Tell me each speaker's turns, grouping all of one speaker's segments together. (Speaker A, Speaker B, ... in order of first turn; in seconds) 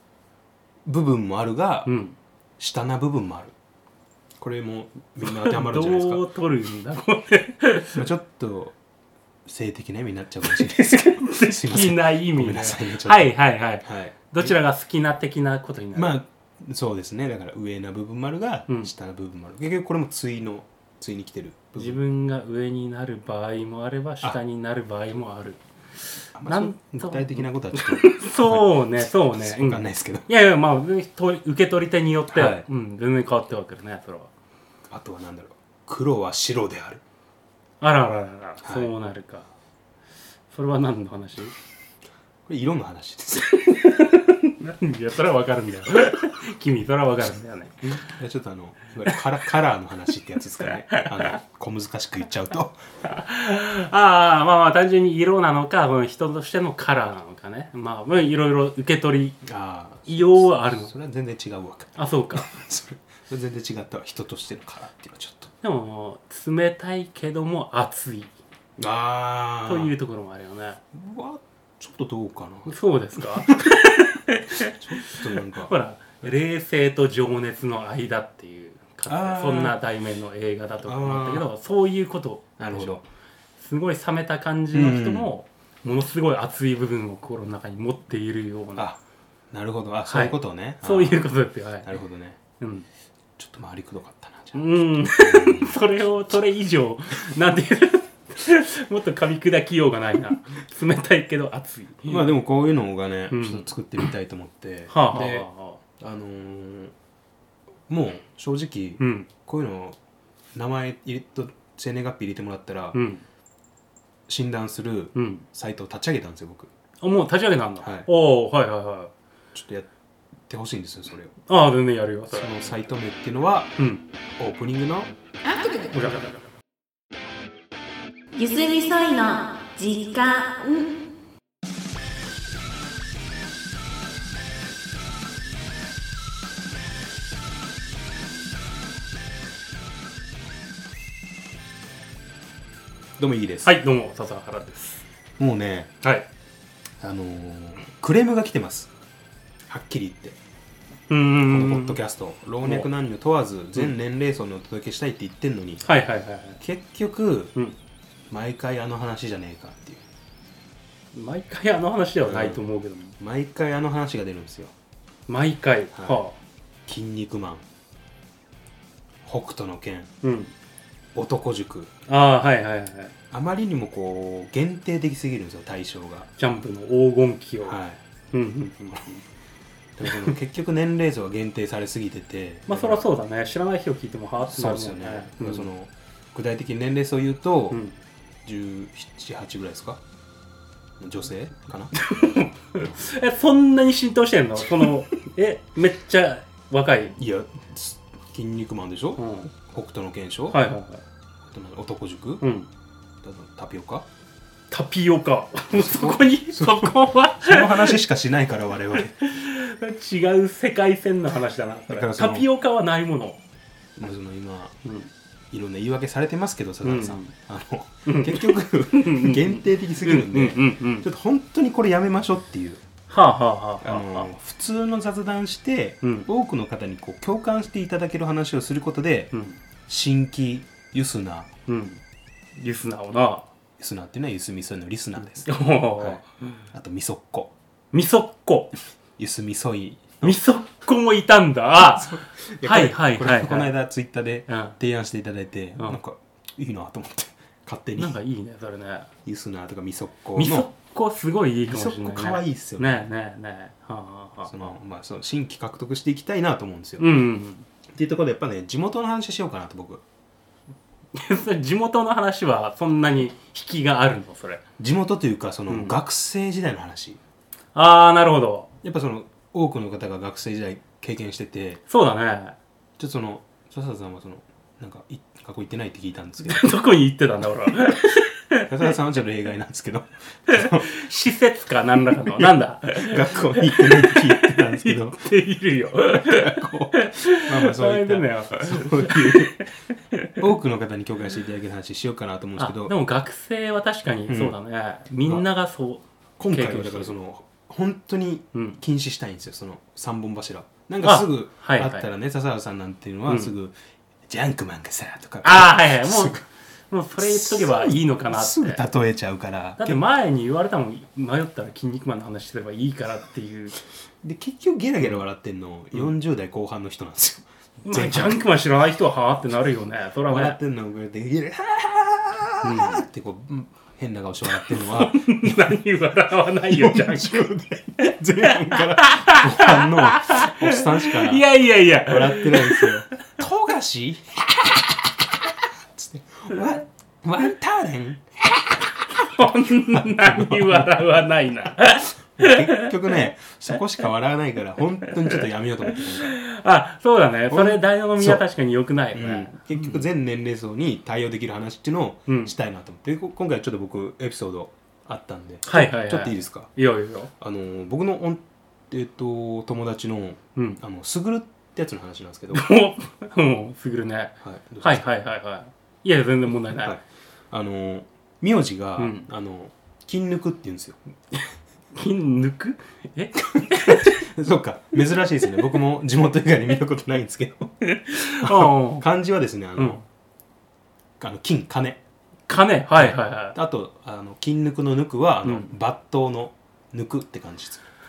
Speaker A: 0.9-1.9, 2.6-3.5, 4.4-6.2, 8.0-8.8, 9.5-14.6, 15.9-22.0, 26.3-30.3, 32.3-32.6, 34.9-37.0, 38.6-38.9, 42.5-43.8, 48.0-52.8, 59.4-65.5, 68.8-69.9, 70.9-73.7, 74.5-75.7, 79.1-79.8, 80.8-81.5, 82.6-83.0, 84.7-85.3, 89.5-91.2, 91.8-92.4, 93.4-95.8, 102.0-106.9, 107.9-110.0, 110.5-113.0, 114.3-116.7, 117.8-118.1, 119.5-119.9, 120.5-121.3, 122.3-123.8, 124.4-125.1, 143.2-143.7, 145.4-146.0, 147.0-148.9, 149.7-150.4, 151.5-155.8, 156.6-157.6, 158.3-160.0, 162.2-162.6, 163.2-164.7, 165.9-166.2, 166.9-167.6, 169.2-170.1, 171.2-171.9, 173.3-176.3, 177.7-178.0, 178.9-179.2, 180.0-183.1, 184.5-187.8, 188.4-190.0, 191.0-192.0, 197.2-200.6, 201.5-202.5, 203.2-204.1, 205.7-209.2, 211.9-212.5, 214.0-214.8, 215.5-222.8, 223.8-229.3, 229.9-231.5, 233.8-237.5, 239.2-240.4, 241.9-248.2, 249.2-250.7, 251.7-253.0, 254.5-257.1, 257.9-260.0, 264.8-267.2, 268.8-271.8, 273.0-276.7, 278.7-280.9, 282.4-285.2, 286.1-289.6, 290.4-292.9, 294.3-294.6, 296.4-303.8, 304.3-306.4, 307.2-310.0, 314.2-318.4, 320.3-325.6, 326.7-334.9, 335.9-338.8, 339.9-340.9, 342.3-346.4, 347.5-348.4, 349.1-356.7, 357.4-362.7, 364.4-365.1, 366.7-371.0, 373.6-380.0, 381.2-382.0, 383.0-387.8
Speaker B: 1.9-2.2, 5.2-8.1, 10.4-16.2, 21.8-25.6, 26.5-34.3, 37.8-39.5, 40.5-41.5, 43.7-48.1, 50.6-51.3, 53.0-59.4, 60.1-60.9, 62.0-62.5, 65.6-68.3, 69.7-70.8, 72.7-83.0, 83.6-88.9, 90.1-92.0, 92.6-92.9, 94.5-102.3, 103.3-103.7, 104.9-105.8, 109.0-109.3, 112.9-113.2, 115.2-115.5, 117.0-119.1, 121.5-122.5, 123.8-124.0, 125.8-126.3, 143.7-145.0, 146.0-146.3, 151.1-152.0, 152.6-152.9, 155.8-156.6, 161.1-163.2, 165.3-166.4, 170.2-170.5, 172.1-173.1, 176.4-177.8, 178.3-179.1, 180.0-180.3, 182.7-185.7, 191.9-197.2, 199.2-199.5, 200.5-201.0, 202.4-202.7, 204.7-208.0, 208.9-213.4, 214.8-215.1, 216.8-217.3, 218.1-221.1, 223.1-224.3, 226.0-226.3, 229.3-229.6, 231.7-232.0, 232.6-233.5, 235.4-236.3, 237.9-238.7, 240.2-243.7, 244.5-244.8, 248.0-249.1, 250.4-254.8, 257.0-257.7, 261.1-264.6, 265.7-265.9, 267.8-268.7, 271.9-272.6, 276.4-278.9, 280.5-290.4, 292.6-297.1, 298.5-298.8, 301.0-302.1, 303.3-303.5, 305.4-308.8, 309.8-313.8, 317.9-320.6, 322.6-323.1, 324.6-327.4, 328.4-333.0, 339.2-343.2, 345.1-345.3, 345.9-350.0, 352.3-352.5, 355.7-357.3, 362.5-366.9, 369.0-369.3, 371.9-374.2, 377.8-379.1, 382.5-383.6, 385.4-385.7
Speaker C: 128.3-131.1